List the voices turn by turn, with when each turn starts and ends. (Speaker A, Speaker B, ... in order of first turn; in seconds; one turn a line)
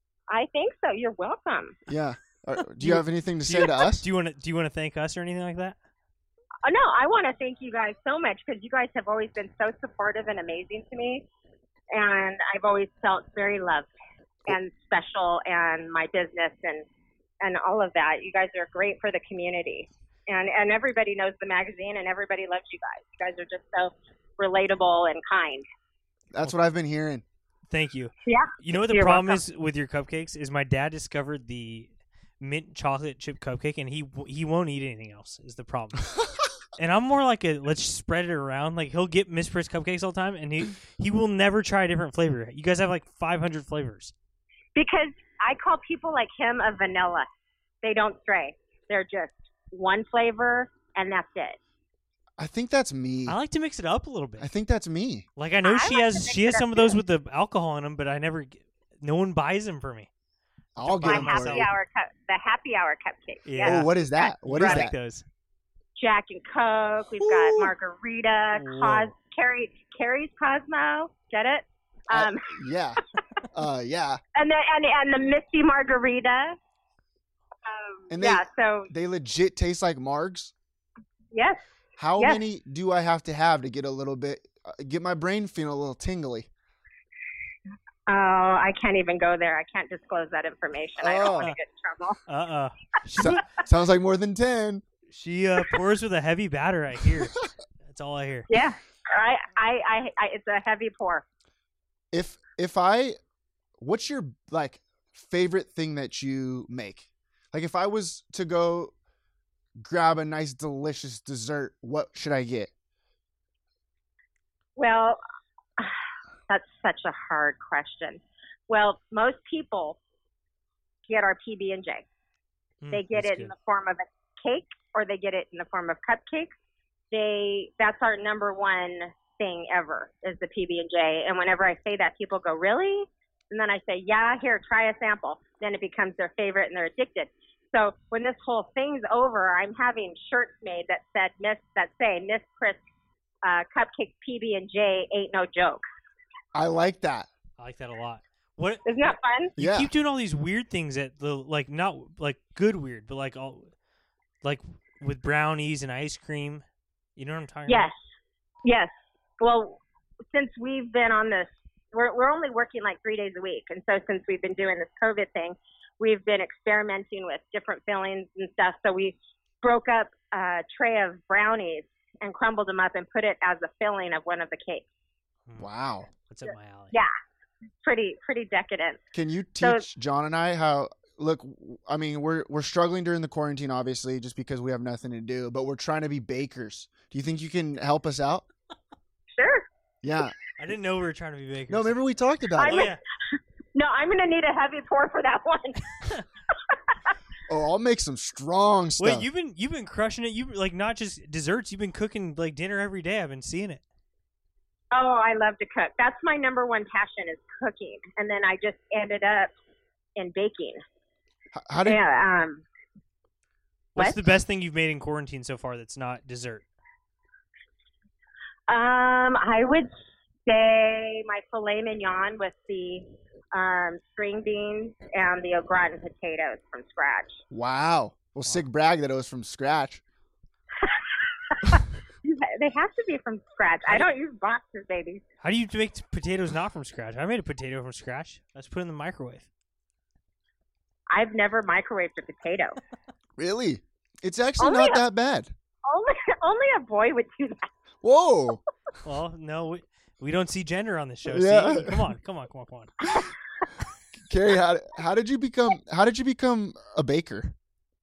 Speaker A: 0.3-1.8
Speaker B: 1.9-4.0
Speaker C: 2.8-5.8
Speaker A: 6.6-11.3
Speaker A: 11.9-13.9
Speaker A: 14.5-16.9
Speaker A: 17.4-25.6
Speaker B: 26.3-27.2
Speaker C: 27.7-31.9
Speaker A: 28.3-29.4
Speaker C: 32.4-36.1
Speaker C: 36.8-44.1
Speaker A: 44.8-47.3
Speaker A: 47.8-51.6
Speaker B: 52.4-53.4
Speaker C: 53.3-54.5
Speaker B: 54.4-55.3
Speaker C: 55.4-60.1
Speaker A: 55.6-57.0
Speaker B: 60.8-61.7
Speaker C: 60.8-61.7
Speaker A: 61.0-64.9
Speaker C: 63.5-63.9
Speaker B: 63.6-64.9
Speaker C: 64.5-65.2
Speaker A: 66.0-72.6
Speaker B: 67.2-67.6
Speaker C: 68.5-69.1
Speaker B: 72.1-73.0
Speaker B: 73.5-74.2
Speaker A: 74.3-76.6
Speaker A: 77.6-78.9
Speaker B: 78.1-80.5
Speaker A: 81.3-81.6
Speaker B: 82.0-86.5
Speaker A: 88.1-92.2
Speaker B: 91.0-91.5
Speaker C: 92.3-93.4
Speaker B: 93.2-94.8
Speaker C: 95.1-98.5
Speaker A: 98.5-101.2
Speaker B: 102.1-103.2
Speaker B: 103.8-108.9
Speaker B: 109.8-112.7
Speaker A: 114.8-115.2
Speaker A: 116.5-120.0
Speaker A: 121.1-122.1
Speaker C: 122.8-123.5
Speaker A: 122.9-126.5
Speaker A: 127.1-142.8
Speaker A: 143.4-145.8
Speaker B: 146.5-147.3
Speaker C: 147.6-148.9
Speaker A: 148.8-149.5
Speaker B: 149.6-149.9
Speaker C: 149.6-153.7
Speaker C: 154.4-156.6
Speaker C: 157.2-157.9
Speaker A: 157.7-158.0
Speaker A: 158.6-174.9
Speaker B: 175.6-176.1
Speaker C: 176.2-177.0
Speaker A: 177.8-179.0
Speaker B: 179.1-188.5
Speaker A: 179.6-179.8
Speaker A: 189.3-189.7
Speaker B: 190.0-190.4
Speaker C: 190.6-192.0
Speaker B: 191.7-192.9
Speaker A: 192.6-195.8
Speaker C: 192.7-193.0
Speaker B: 197.5-199.3
Speaker C: 199.0-203.8
Speaker A: 204.9-209.5
Speaker A: 210.2-210.8
Speaker B: 211.5-212.0
Speaker A: 211.8-212.7
Speaker C: 213.9-216.7
Speaker A: 218.7-219.9
Speaker A: 220.4-227.4
Speaker B: 227.5-230.0
Speaker A: 230.8-235.2
Speaker C: 235.4-239.5
Speaker A: 241.1-242.8
Speaker B: 243.4-245.5
Speaker A: 244.6-245.0
Speaker A: 245.9-247.7
Speaker B: 248.0-248.6
Speaker C: 249.0-252.9
Speaker B: 251.3-252.1
Speaker B: 254.3-257.5